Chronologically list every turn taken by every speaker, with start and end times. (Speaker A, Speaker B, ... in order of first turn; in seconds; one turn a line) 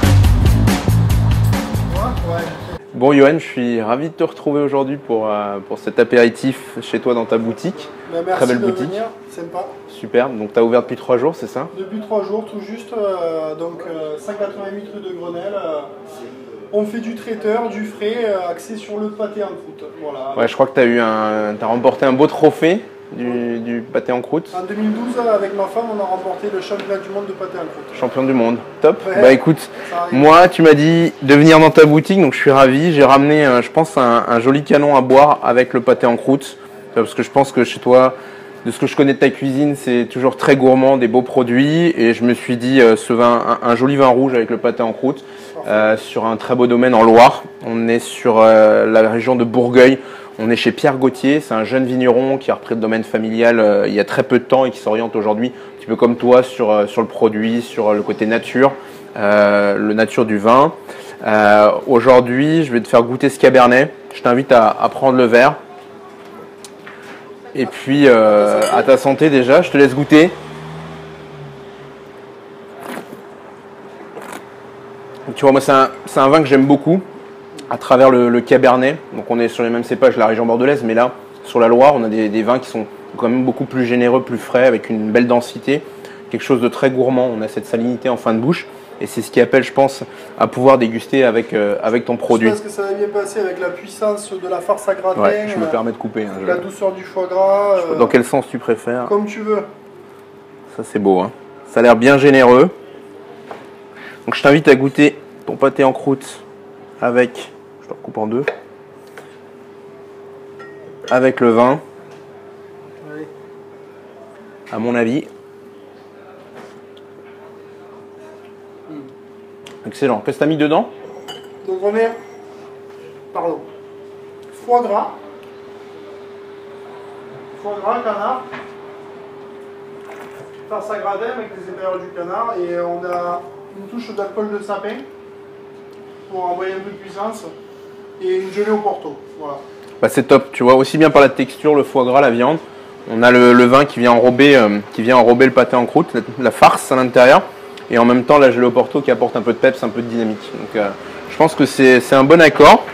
Speaker A: 1.9-2.6
Speaker B: 2.9-9.0
Speaker A: 8.0-9.7
Speaker B: 9.9-11.7
Speaker A: 11.7-15.9
Speaker A: 16.7-20.5
Speaker B: 20.4-24.5
Speaker A: 24.5-28.0
Speaker B: 27.9-65.6
Speaker A: 29.0-30.4
Speaker A: 45.6-45.9
Speaker B: 67.5-70.3
Speaker A: 68.4-68.9
Speaker B: 75.3-77.0
Speaker B: 77.7-92.6
Speaker A: 92.3-95.8
Speaker B: 95.2-96.6
Speaker A: 96.4-98.2
Speaker B: 97.8-99.1
Speaker A: 99.0-99.7
Speaker B: 100.7-102.7
Speaker B: 104.2-106.4
Speaker B: 107.0-108.5
Speaker B: 111.1-111.8
Speaker A: 113.0-113.3
Speaker B: 114.7-115.3
Speaker B: 119.8-120.9
Speaker A: 121.6-122.2
Speaker A: 123.3-123.7
Speaker A: 124.5-125.2
Speaker A: 127.5-128.4
Speaker A: 130.7-135.0
Speaker A: 136.3-137.5
Speaker A: 138.2-139.6
Speaker B: 140.0-152.8